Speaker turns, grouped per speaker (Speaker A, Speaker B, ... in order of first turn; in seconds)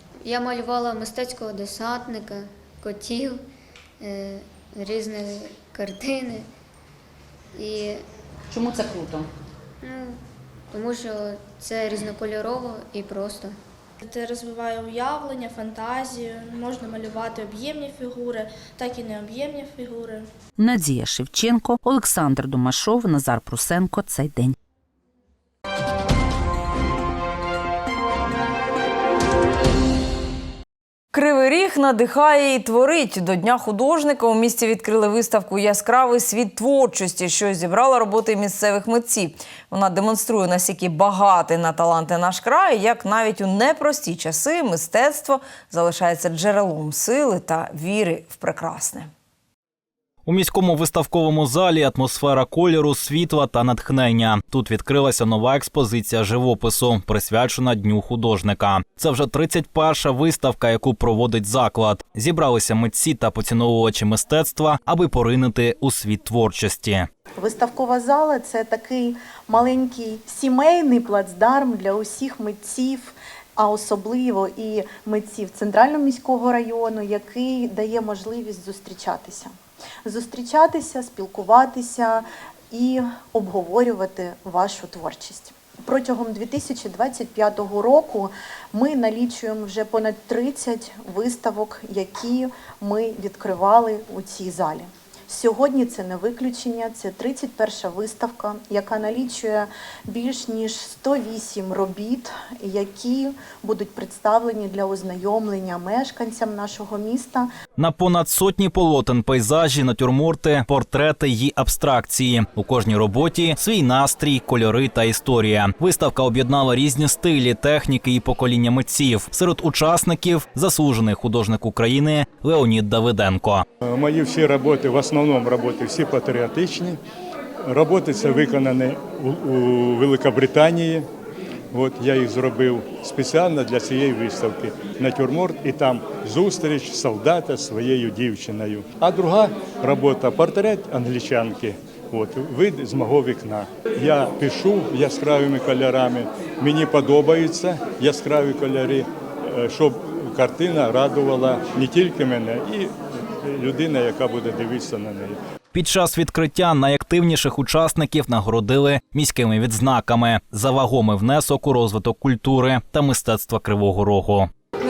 Speaker A: 0.2-3.4, 4.0-6.5, 7.5-8.0, 9.8-10.2, 10.7-13.6
Speaker B: 8.5-9.2, 20.6-24.5
Speaker C: 14.0-20.2
Speaker D: 31.1-49.1
Speaker E: 50.2-67.1, 107.8-123.7, 155.7-164.5
Speaker F: 67.4-79.5, 80.0-107.5
Speaker G: 123.8-127.0, 127.6-131.1, 131.7-155.4